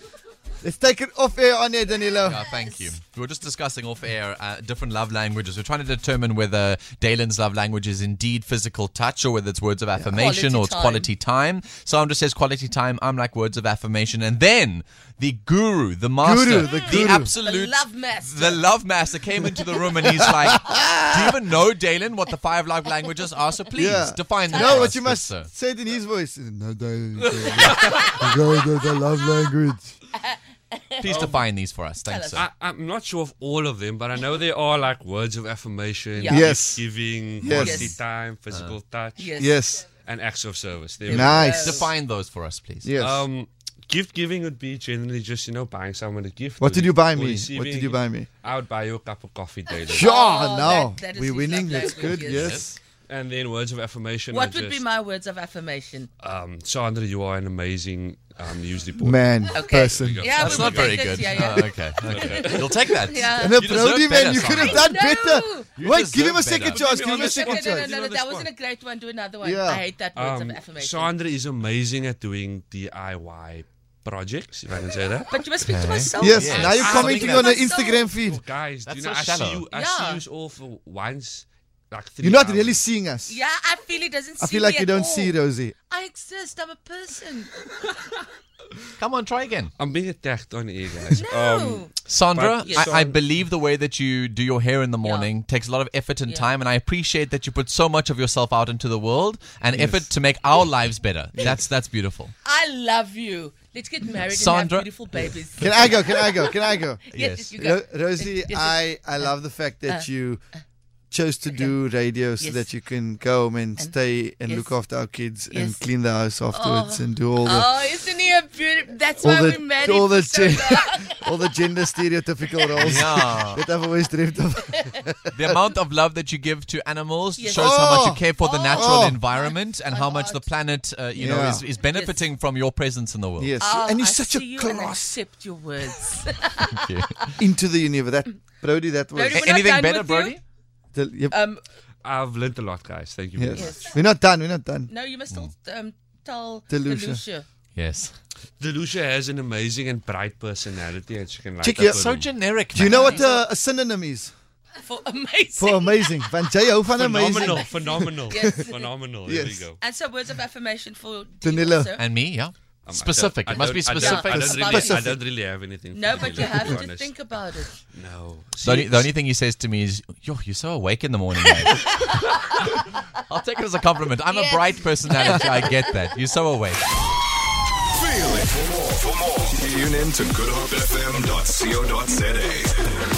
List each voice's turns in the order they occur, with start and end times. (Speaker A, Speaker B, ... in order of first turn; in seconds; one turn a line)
Speaker A: 0.6-2.5
Speaker B: 2.2-25.5
Speaker C: 10.1-11.1
Speaker A: 16.2-17.3
Speaker C: 16.6-18.6
Speaker A: 20.1-21.3
Speaker A: 23.8-29.9
Speaker C: 24.5-24.9
Speaker D: 27.3-28.1
Speaker C: 27.6-28.1
Speaker C: 30.2-31.1
Speaker B: 31.0-32.4
Speaker D: 31.1-31.4
Speaker C: 32.1-32.5
Speaker D: 32.3-39.3
Speaker C: 36.2-36.5
Speaker A: 36.3-37.9
Speaker C: 37.4-38.0
Speaker C: 39.2-39.6
Speaker A: 39.4-39.9
Speaker D: 40.0-41.6
Speaker A: 41.1-41.8
Speaker C: 41.1-41.9
Speaker B: 41.4-42.9
Speaker A: 42.8-43.3
Speaker D: 43.0-50.1
Speaker A: 46.6-48.3
Speaker A: 49.9-52.8
Speaker C: 50.0-52.6
Speaker B: 52.3-52.6
Speaker D: 53.1-54.8
Speaker C: 54.3-56.1
Speaker D: 56.2-61.4
Speaker A: 59.0-60.2
Speaker C: 59.5-63.8
Speaker B: 60.3-64.8
Speaker D: 62.0-63.0
Speaker A: 63.4-67.9
Speaker C: 64.3-65.7
Speaker B: 65.8-66.8
Speaker D: 66.6-68.5
Speaker C: 66.9-71.1
Speaker A: 69.4-69.8
Speaker D: 70.2-75.4
Speaker C: 75.3-78.1
Speaker B: 75.6-77.6
Speaker A: 76.2-78.4
Speaker D: 76.7-82.8
Speaker B: 78.8-79.6
Speaker C: 79.7-80.2
Speaker A: 82.2-83.4
Speaker C: 83.3-85.4
Speaker A: 84.4-85.7
Speaker C: 85.9-87.5
Speaker B: 89.0-89.7
Speaker D: 89.8-93.2
Speaker C: 91.1-91.9
Speaker B: 92.0-102.3
Speaker C: 92.6-92.9
Speaker C: 95.0-95.3
Speaker D: 99.8-100.0
Speaker C: 102.4-109.3
Speaker B: 104.2-105.0
Speaker A: 105.6-107.0
Speaker B: 107.1-107.5
Speaker A: 107.6-110.4
Speaker A: 111.1-117.7
Speaker C: 112.4-112.7
Speaker C: 114.5-114.8
Speaker C: 115.5-115.9
Speaker C: 116.5-121.5
Speaker A: 119.2-125.6
Speaker C: 122.5-123.0
Speaker B: 122.8-123.6
Speaker C: 124.6-125.0
Speaker B: 125.3-133.5
Speaker C: 127.4-130.5
Speaker A: 127.5-129.2
Speaker A: 131.2-131.6
Speaker C: 131.8-132.3
Speaker A: 133.4-135.2
Speaker C: 133.6-136.9
Speaker B: 136.7-137.3
Speaker A: 137.4-139.5
Speaker C: 139.1-140.3
Speaker B: 139.3-140.4
Speaker A: 140.9-141.3
Speaker C: 141.3-141.6
Speaker D: 142.0-143.9
Speaker A: 143.3-144.9
Speaker C: 143.5-144.0
Speaker C: 144.9-147.5
Speaker A: 146.7-147.2
Speaker B: 147.8-148.2
Speaker D: 148.6-152.4
Speaker A: 151.6-152.0
Speaker B: 151.7-153.2
Speaker A: 152.7-154.3
Speaker C: 152.8-153.4
Speaker C: 154.8-156.2
Speaker A: 155.6-158.6
Speaker D: 156.9-159.8
Speaker C: 157.3-158.9
Speaker A: 159.2-159.7
Speaker C: 159.8-162.1
Speaker A: 161.4-161.9
Speaker B: 162.0-164.8
Speaker D: 162.8-167.1
Speaker C: 164.0-165.2
Speaker A: 164.3-165.2
Speaker C: 165.9-167.8
Speaker D: 167.9-169.1
Speaker B: 168.6-172.0
Speaker C: 171.6-172.2
Speaker B: 173.3-176.8
Speaker C: 174.4-175.8
Speaker E: 177.9-183.0